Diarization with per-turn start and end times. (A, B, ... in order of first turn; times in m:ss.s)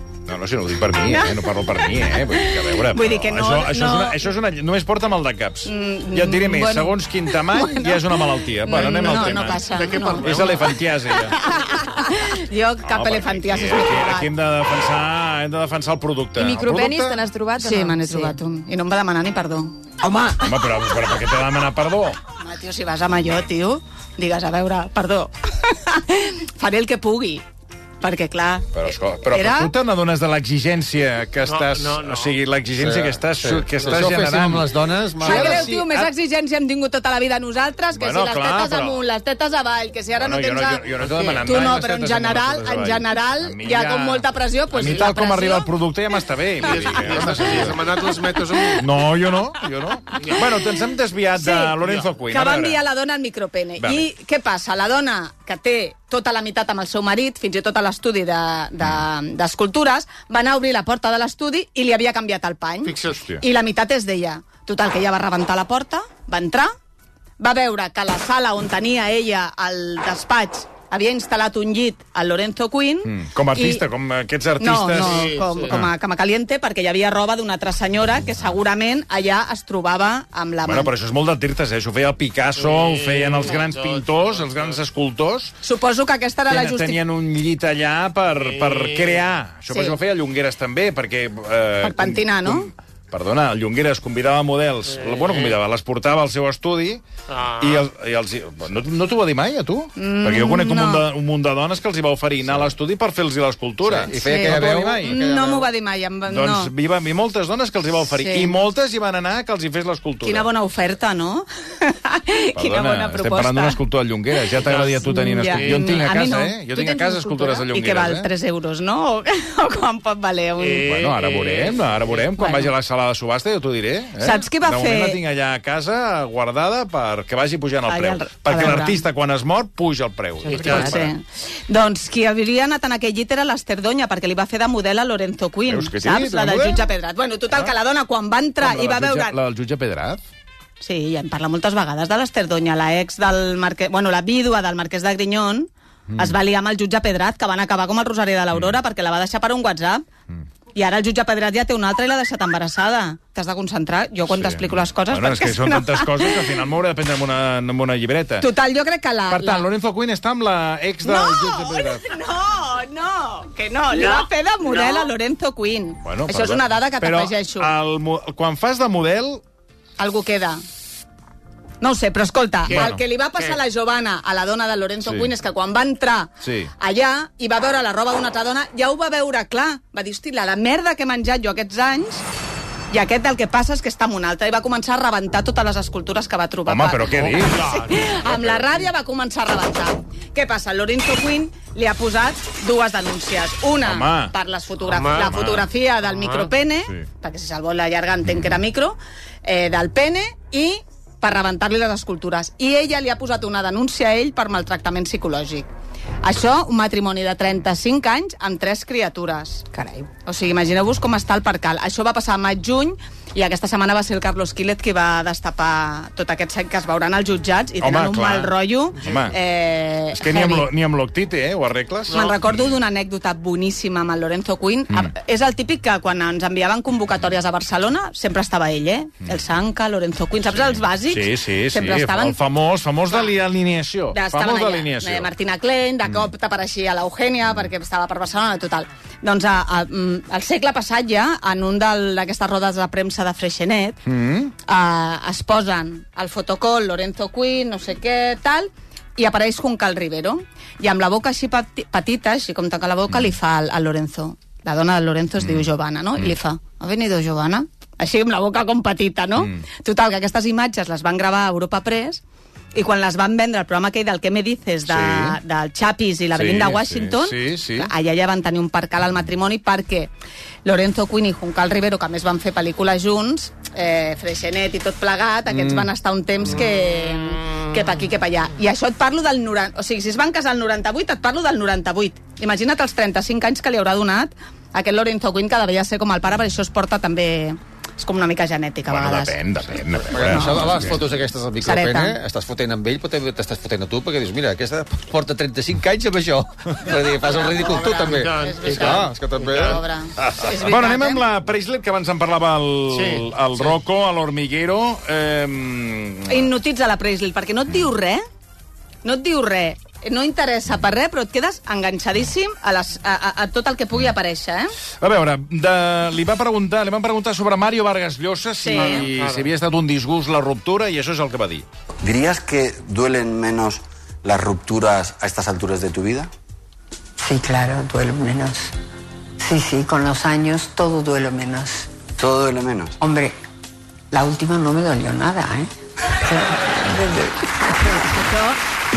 0:00.3-0:11.4 A
0:01.1-0:04.3 B
0:05.7-0:10.5 B
0:09.0-0:10.8 C
0:11.2-0:14.3 B
0:12.8-0:17.2 A
0:16.4-0:18.4 D
0:17.6-0:19.7 B
0:20.0-0:20.5 D
0:20.4-0:22.2 A
0:22.4-0:27.4 B
0:28.0-0:29.7 B
0:28.7-0:36.1 A
0:31.5-0:32.4 C
0:32.8-0:35.8 E
0:35.2-0:40.9 B
0:38.0-0:39.0 A
0:40.2-0:47.9 A
0:41.0-0:41.5 C
0:41.4-0:45.7 B
0:46.6-0:48.9 C
0:46.7-0:47.3 B
0:48.5-0:48.8 B
0:48.8-0:52.8 A
0:50.1-0:50.6 B
0:50.2-0:50.5 C
0:51.4-0:51.8 B
0:51.8-0:52.1 C
0:52.3-1:06.7 B
0:53.8-0:54.1 A
1:02.8-1:03.2 C
1:03.1-1:03.4 A
1:07.4-1:13.8 B
1:13.0-1:15.9 A
1:14.6-1:20.9 B
1:15.0-1:15.8 C
1:20.6-1:25.5 A
1:22.6-1:24.8 C
1:25.6-1:27.0 B
1:26.5-1:37.0 A
1:28.4-1:29.2 C
1:29.7-1:30.0 B
1:31.8-1:32.7 B
1:34.9-1:35.6 C
1:37.3-1:37.9 C
1:37.6-1:45.2 A
1:40.0-1:41.1 B
1:43.8-1:45.7 E
1:44.1-1:46.7 B
1:46.3-1:50.5 A
1:48.2-1:48.5 B
1:50.2-1:53.8 B
1:52.6-1:58.3 A
1:54.6-1:56.0 C
1:54.7-2:00.9 B
2:00.6-2:02.2 C
2:00.8-2:11.1 A
2:02.4-2:02.7 B
2:04.2-2:05.2 B
2:07.9-2:09.0 B
2:10.5-2:10.9 D
2:10.5-2:10.9 C
2:10.6-2:19.4 B
2:15.7-2:16.8 A
2:18.6-2:20.2 A
2:20.8-2:30.0 B
2:26.1-2:26.4 A
2:30.8-2:36.5 B
2:34.3-2:38.5 A
2:38.4-2:39.7 B
2:39.3-2:42.1 A
2:41.0-2:47.7 B
2:46.0-2:49.4 A
2:50.0-2:50.6 B
2:51.8-3:02.2 B
2:52.7-2:53.0 A
2:52.7-2:53.6 C
2:55.0-2:55.3 A
2:56.4-2:56.7 A
3:02.9-3:25.7 B
3:06.7-3:07.6 A
3:07.1-3:08.9 C
3:13.8-3:14.3 A
3:14.9-3:15.4 C
3:15.2-3:15.7 A
3:16.0-3:16.5 C
3:26.2-3:29.6 B
3:29.7-3:30.1 D
3:30.3-3:40.7 B
3:37.8-3:39.4 A
3:39.0-3:39.3 C
3:40.1-3:42.3 A
3:42.1-3:42.6 C
3:42.1-3:52.4 B
3:50.5-3:55.3 A
3:53.1-3:53.3 B
3:54.1-4:04.0 B
4:04.1-4:04.5 A
4:04.6-4:22.2 B
4:15.4-4:15.7 A
4:22.7-4:30.1 B
4:24.9-4:25.4 A
4:26.3-4:27.9 A
4:30.6-4:49.4 B
4:35.5-4:35.9 A
4:37.2-4:37.6 C
4:48.9-4:51.0 A
4:50.1-4:59.8 E
4:50.2-4:50.8 B
4:51.6-4:52.2 B
4:57.2-5:01.2 B
4:57.9-4:59.8 C
5:00.4-5:06.5 A
5:02.9-5:03.8 C
5:06.3-5:08.2 B
5:09.0-5:14.7 B
5:15.0-5:21.7 A
5:18.6-5:19.0 B
5:18.7-5:19.5 C
5:22.0-5:26.3 F
5:27.2-5:28.7 G
5:29.4-5:31.9 G
5:32.2-5:33.0 F
5:33.0-5:33.4 G
5:34.1-5:38.1 G
5:37.9-5:38.6 B